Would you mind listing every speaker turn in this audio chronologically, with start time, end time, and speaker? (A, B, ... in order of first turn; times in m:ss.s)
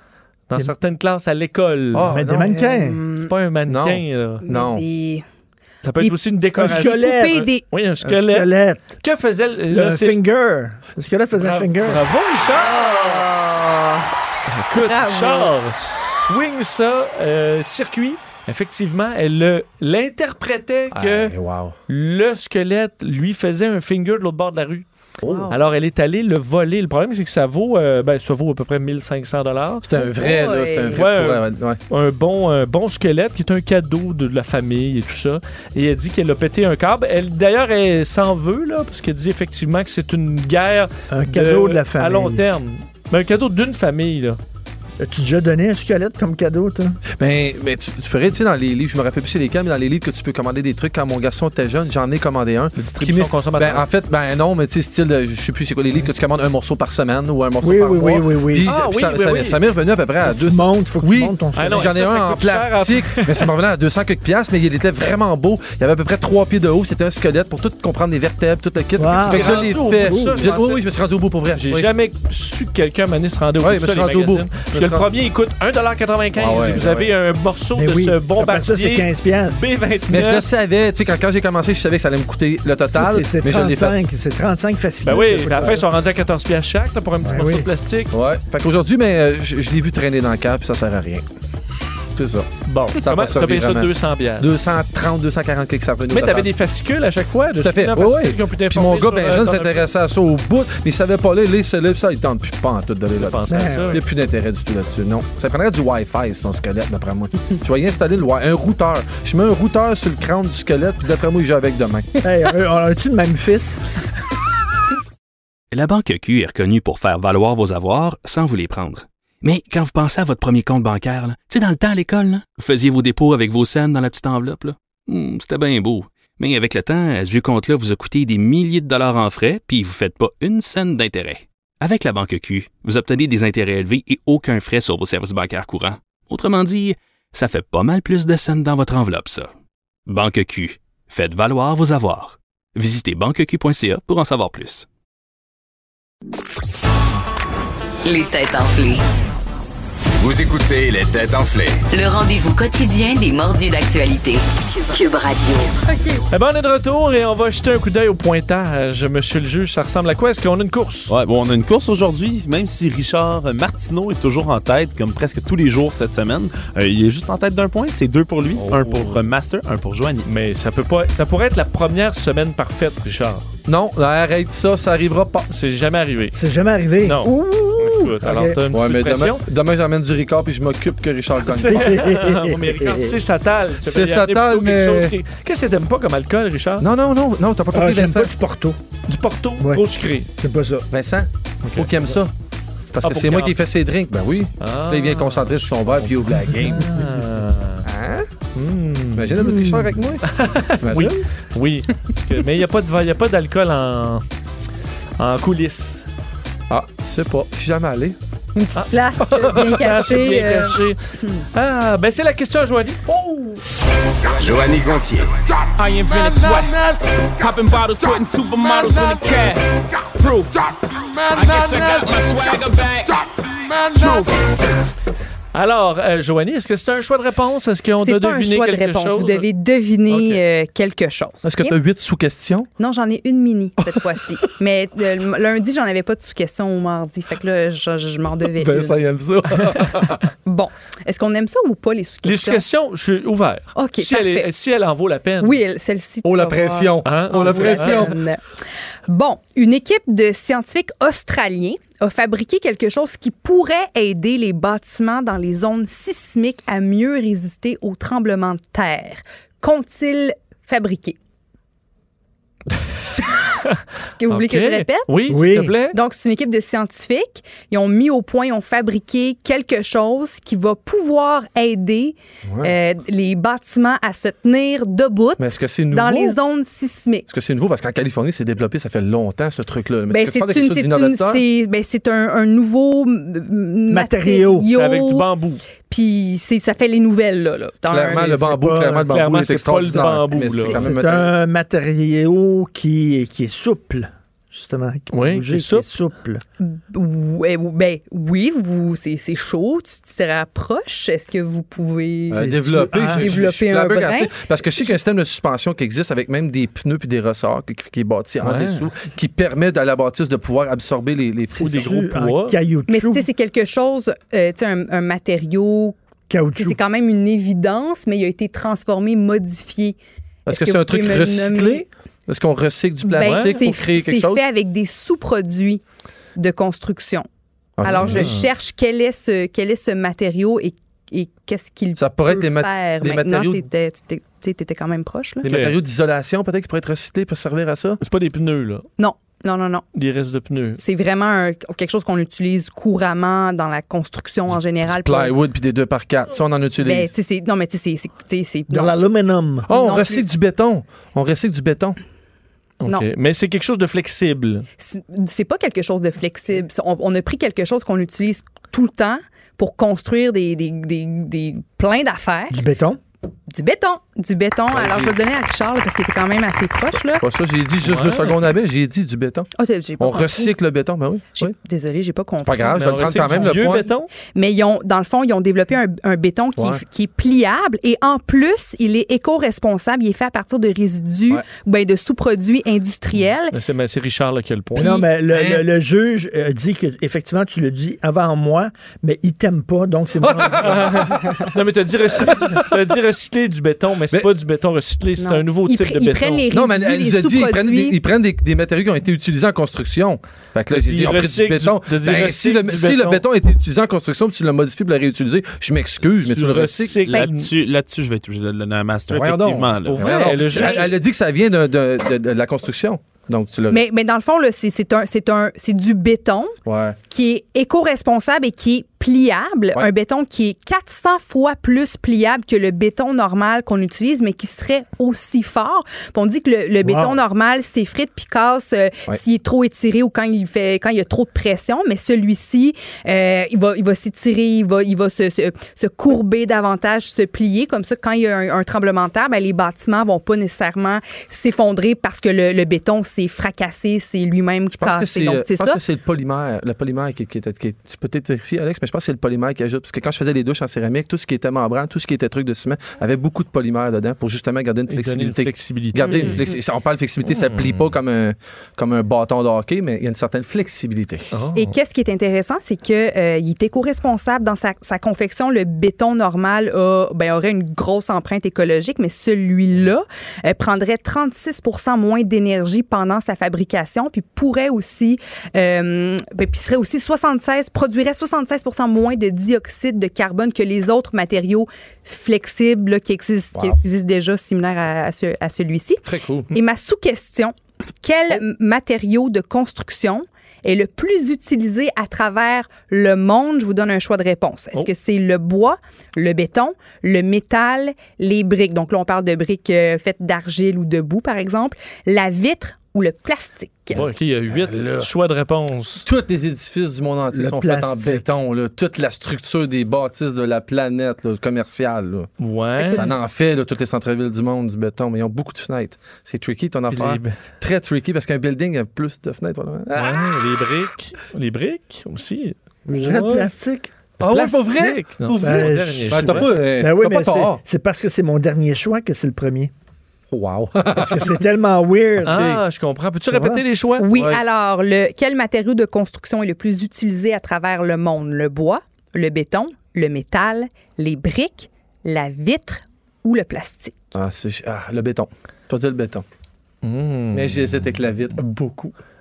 0:00.5-0:02.1 A
0:01.9-0:02.6 B
0:02.1-0:03.0 C
0:02.4-0:03.3 D
0:03.2-0:04.4 A
0:03.7-0:04.8 B
0:04.4-0:05.2 D
0:05.8-0:10.2 A
0:06.0-0:07.6 D
0:06.6-0:07.5 C
0:08.0-0:09.0 C
0:09.7-0:12.1 C
0:11.4-0:13.2 A
0:12.6-0:14.1 D
0:14.5-0:21.3 A
0:14.7-0:15.5 D
0:20.9-0:21.8 B
0:21.9-0:24.9 A
0:25.2-0:25.5 B
0:25.3-0:25.5 D
0:25.5-0:29.9 A
0:29.8-0:31.8 B
0:30.0-0:31.0 D
0:30.9-0:44.4 A
0:41.1-0:42.4 C
0:45.0-0:47.0 C
0:47.2-1:11.9 B
0:52.8-0:53.9 A
0:57.6-0:58.7 C
0:58.6-0:59.6 A
1:00.2-1:01.9 C
1:01.5-1:03.4 A
1:09.0-1:10.5 C
1:09.2-1:10.8 A
1:11.6-1:20.4 A
1:13.6-1:15.1 B
1:16.4-1:17.1 B
1:17.7-1:19.7 C
1:20.1-1:24.0 B
1:22.9-1:25.9 C
1:25.0-1:28.1 A
1:27.2-1:27.7 C
1:28.1-1:31.2 B
1:32.1-1:36.5 B
1:32.6-1:34.5 A
1:36.1-1:39.8 A
1:37.5-1:52.1 B
1:43.2-1:44.0 A
1:43.5-1:44.0 C
1:52.2-1:53.8 C
1:55.7-2:19.5 E
2:20.1-2:24.9 E
2:28.0-2:29.0 F
2:30.2-2:31.8 G
2:31.9-2:35.7 F
2:35.9-2:36.2 D
2:36.3-2:41.1 A
2:41.1-2:50.3 H
2:48.5-2:49.2 A
2:50.2-2:53.4 A
2:53.6-2:55.5 B
2:55.5-2:56.4 A
2:56.3-2:58.6 C
2:57.0-2:59.4 A
2:58.7-3:02.2 B
3:01.4-3:06.9 A
3:01.6-3:03.2 C
3:03.8-3:05.1 B
3:06.8-3:08.3 B
3:07.7-3:08.8 C
3:09.1-3:10.3 A
3:09.6-3:09.8 C
3:10.4-3:10.9 C
3:10.9-3:12.3 B
3:11.6-3:11.9 A
3:12.9-3:17.0 B
3:13.0-3:13.6 A
3:14.6-3:17.8 A
3:17.8-3:18.3 B
3:18.5-3:19.5 A
3:19.1-3:21.2 B
3:19.4-3:19.9 C
3:20.2-3:24.2 A
3:25.2-3:26.1 A
3:26.7-3:28.2 B
3:28.5-3:31.4 D
3:28.8-3:31.0 A
3:29.3-3:29.9 B
3:31.5-3:33.0 A
3:33.1-3:33.6 B
3:34.3-3:35.3 G
3:35.8-3:40.8 I
3:41.3-3:44.4 I
3:45.5-3:49.5 A
3:48.0-3:51.8 D
3:50.1-3:50.4 A
3:51.4-3:52.7 B
3:52.8-3:59.0 D
3:58.6-4:00.2 B
4:00.4-4:02.6 D
4:02.2-4:05.6 A
4:03.7-4:04.5 D
4:05.4-4:08.4 D
4:06.2-4:08.2 B
4:07.0-4:08.1 A
4:09.1-4:21.2 D
4:24.0-4:25.4 D
4:24.3-4:26.0 A
4:25.3-4:25.7 C
4:25.9-4:37.3 D
4:32.5-4:32.7 B
4:35.4-4:36.4 B
4:37.3-4:41.4 B
4:40.1-4:45.3 D
4:43.9-4:44.7 C
4:44.7-4:45.6 A
4:45.8-4:48.5 D
4:47.9-4:51.3 B
4:48.3-4:49.2 C
4:49.1-4:50.8 A
4:50.4-4:50.8 D
4:50.7-4:56.4 C
4:55.1-4:55.9 A
4:56.6-5:04.4 D
5:02.3-5:11.9 B
5:02.3-5:03.4 C
5:08.4-5:08.9 A
5:11.5-5:13.3 C
5:11.6-5:12.6 A
5:12.9-5:16.0 D
5:16.3-5:16.8 C
5:16.6-5:20.0 D
5:20.5-5:24.4 B
5:20.5-5:21.8 D
5:23.1-5:25.8 D
5:23.2-5:23.6 A
5:26.4-5:27.3 D
5:27.8-5:28.3 B
5:27.8-5:35.4 D
5:28.0-5:28.5 A
5:32.0-5:33.6 B
5:35.4-5:38.0 B
5:35.4-5:35.7 A
5:38.0-5:38.8 A
5:39.0-5:39.8 D
5:39.9-5:40.8 A
5:40.8-5:45.4 D
5:44.8-5:47.1 B
5:46.8-5:49.0 D
5:48.7-5:49.7 C
5:49.7-5:52.0 B
5:49.7-5:50.2 D
5:52.8-5:54.7 A
5:54.8-6:02.6 D
6:02.5-6:03.0 C
6:03.5-6:07.2 D
6:04.7-6:05.2 B
6:07.0-6:11.5 B
6:07.8-6:08.4 A
6:09.6-6:10.5 D
6:11.4-6:13.6 D
6:12.4-6:13.9 B
6:12.7-6:14.1 A
6:14.2-6:23.5 D
6:23.5-6:25.0 A
6:24.8-6:31.2 C
6:24.9-6:25.6 B
6:30.2-6:31.5 B
6:30.5-6:36.4 A
6:32.2-6:32.8 B
6:35.2-6:38.0 D
6:36.5-6:47.0 B
6:40.7-6:43.2 A
6:46.2-6:47.5 A
6:47.0-6:50.7 H
6:49.1-6:53.8 B
6:49.9-6:50.9 A
6:50.6-6:50.8 D
6:53.7-6:56.5 D
6:56.6-6:57.0 B
6:57.1-7:25.8 D
7:06.8-7:07.2 C
7:24.8-7:41.3 B
7:34.9-7:36.4 A
7:36.0-7:36.4 D
7:37.3-7:37.7 A
7:41.3-7:41.7 A
7:41.5-8:24.0 D
8:06.1-8:06.5 B
8:23.9-8:26.1 A
8:24.0-8:25.1 B
8:26.0-8:32.3 B
8:27.3-8:28.2 C
8:32.4-8:33.1 A
8:32.8-8:33.1 D
8:32.9-8:40.3 B
8:36.9-8:37.4 A
8:39.9-8:43.5 A
8:42.9-8:43.9 C
8:44.2-8:47.6 B
8:44.2-8:46.5 A
8:45.4-8:49.7 C
8:50.3-8:51.4 B
8:50.9-8:52.5 C
8:52.2-8:54.1 A
8:52.2-8:52.6 B
8:53.3-8:53.6 C
8:54.0-9:04.1 D
8:54.1-8:54.4 B
9:04.1-9:06.2 B
9:06.8-9:07.5 A
9:07.3-9:08.9 B